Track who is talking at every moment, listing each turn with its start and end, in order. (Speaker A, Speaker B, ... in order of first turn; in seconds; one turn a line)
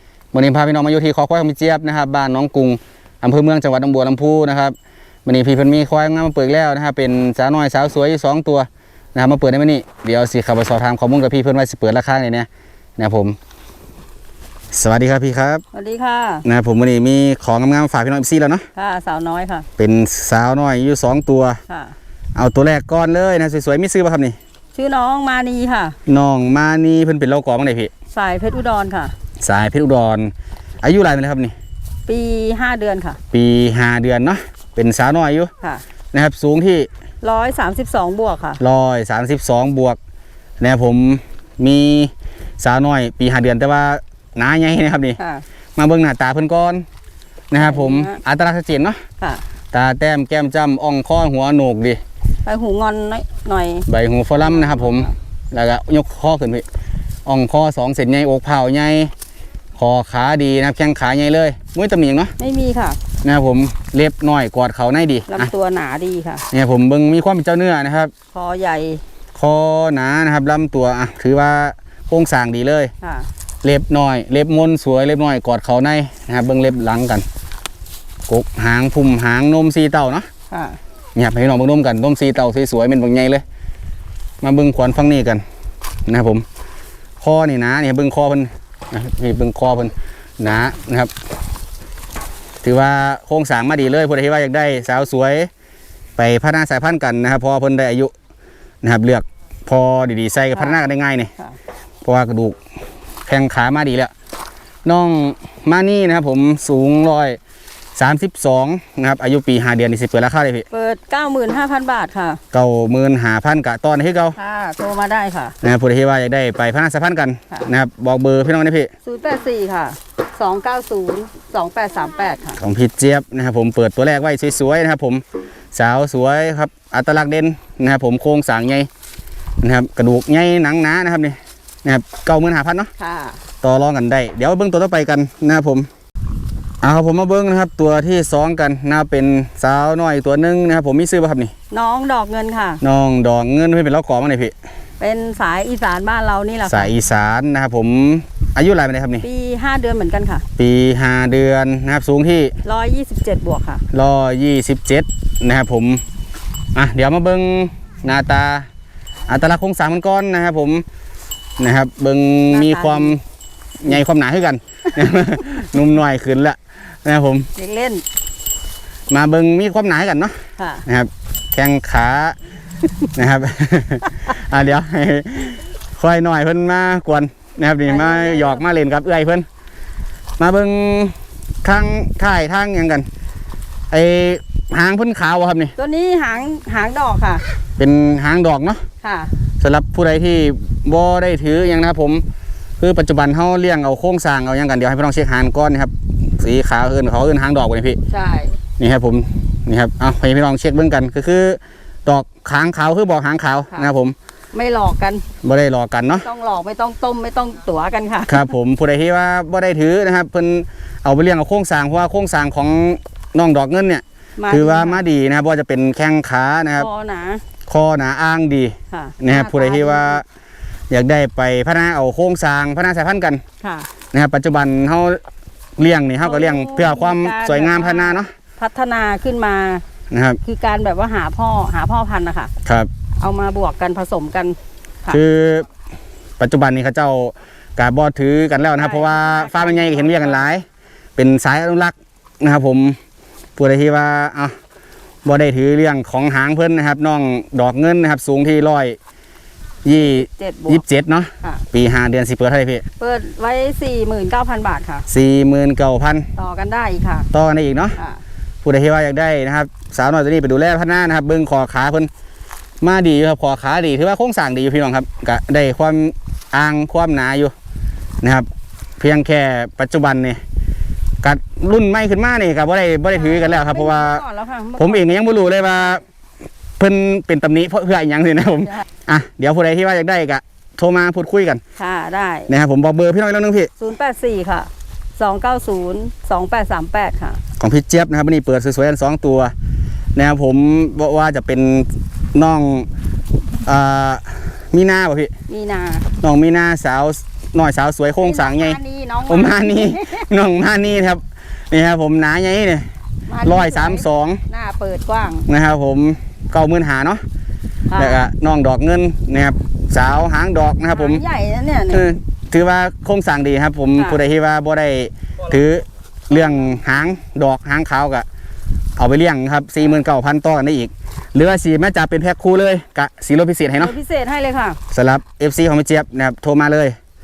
Speaker A: 0.3-13.4
Speaker A: 14.7-15.6
Speaker B: 15.7-16.4
Speaker A: 16.4-18.6
Speaker B: 18.7-19.7
Speaker A: 19.8-21.6
Speaker B: 21.7-21.9
Speaker A: 22.3-24.4
Speaker B: 24.7-25.9
Speaker A: 26.1-27.9
Speaker B: 28.1-29.1
Speaker A: 29.4-31.5
Speaker B: 32.1-33.2
Speaker A: 33.3-35.5
Speaker A: 36.1-36.9
Speaker B: 37.2-38.6
Speaker A: 38.6-40.0
Speaker A: 40.6-45.2
Speaker B: 45.2-45.4
Speaker A: 45.8-46.9
Speaker A: 47.5-49.0
Speaker B: 47.6-48.2
Speaker A: 49.7-52.0
Speaker B: 52.4-55.1
Speaker A: 53.9-56.6
Speaker A: 57.2-59.1
Speaker A: 59.8-62.3
Speaker B: 62.4-63.0
Speaker A: 63.2-65.5
Speaker B: 65.3-66.4
Speaker A: 66.5-68.1
Speaker B: 68.3-69.0
Speaker A: 69.3-72.9
Speaker B: 73.0-73.3
Speaker A: 73.6-77.2
Speaker A: 78.3-80.3
Speaker B: 80.5-80.8
Speaker A: 81.1-83.4
Speaker A: 84.4-85.4
Speaker A: 86.0-86.4
Speaker A: 87.2-91.1
Speaker A: 92.6-95.5
Speaker A: 96.2-98.1
Speaker A: 98.8-101.3
Speaker B: 100.5-100.8
Speaker A: 102.0-102.6
Speaker A: 103.2-104.1
Speaker A: 104.8-107.4
Speaker A: 107.9-110.7
Speaker B: 110.7-112.4
Speaker A: 112.5-114.4
Speaker B: 114.3-115.5
Speaker A: 115.6-118.9
Speaker B: 119.0-122.6
Speaker A: 122.6-128.9
Speaker A: 129.6-132.9
Speaker B: 133.0-133.4
Speaker A: 133.6-135.9
Speaker A: 136.8-141.5
Speaker B: 141.7-142.8
Speaker A: 142.8-144.5
Speaker B: 145.0-146.9
Speaker A: 146.7-149.2
Speaker B: 149.2-150.4
Speaker A: 150.6-152.5
Speaker B: 152.6-153.8
Speaker A: 153.9-156.0
Speaker A: 156.7-158.7
Speaker A: 159.3-160.8
Speaker A: 161.6-163.2
Speaker B: 162.5-163.2
Speaker A: 163.8-167.5
Speaker B: 167.5-168.0
Speaker A: 169.1-170.3
Speaker B: 170.6-170.8
Speaker A: 170.8-172.4
Speaker A: 173.1-179.4
Speaker B: 177.9-178.6
Speaker A: 180.4-183.1
Speaker A: 183.9-185.7
Speaker B: 185.8-187.4
Speaker A: 187.8-188.8
Speaker B: 189.0-189.3
Speaker A: 189.6-192.2
Speaker A: 192.8-198.0
Speaker B: 198.1-198.6
Speaker A: 198.8-204.2
Speaker B: 204.5-205.2
Speaker A: 205.4-206.2
Speaker B: 206.1-208.5
Speaker A: 208.3-216.9
Speaker B: 214.4-215.0
Speaker B: 216.8-217.4
Speaker A: 217.7-220.2
Speaker B: 218.9-220.2
Speaker A: 220.9-223.4
Speaker B: 223.6-223.9
Speaker A: 224.1-225.2
Speaker A: 225.8-228.3
Speaker B: 226.2-229.8
Speaker A: 230.1-230.4
Speaker B: 230.4-232.5
Speaker A: 232.6-232.9
Speaker B: 233.2-235.2
Speaker A: 235.1-235.7
Speaker A: 236.4-240.6
Speaker B: 238.8-240.5
Speaker A: 241.2-243.0
Speaker A: 243.6-244.5
Speaker A: 245.2-249.0
Speaker A: 249.8-252.8
Speaker B: 249.9-250.8
Speaker B: 253.0-255.1
Speaker A: 255.1-256.3
Speaker B: 256.4-257.3
Speaker A: 257.3-258.0
Speaker A: 258.6-262.1
Speaker A: 262.8-267.5
Speaker A: 268.2-268.5
Speaker A: 269.0-270.4
Speaker A: 271.2-274.2
Speaker B: 273.1-275.1
Speaker A: 274.8-276.0
Speaker A: 276.8-281.6
Speaker B: 281.8-282.5
Speaker A: 282.5-283.7
Speaker B: 283.8-287.4
Speaker A: 287.6-289.5
Speaker A: 290.1-292.9
Speaker A: 293.6-295.3
Speaker B: 295.5-296.1
Speaker A: 296.2-302.9
Speaker B: 298.2-300.3
Speaker B: 303.3-305.5
Speaker A: 303.4-304.4
Speaker A: 305.5-307.2
Speaker B: 307.9-308.2
Speaker A: 307.9-311.2
Speaker B: 310.9-312.1
Speaker A: 311.9-318.2
Speaker B: 313.9-314.2
Speaker A: 319.0-323.9
Speaker B: 323.8-324.8
Speaker A: 324.9-326.9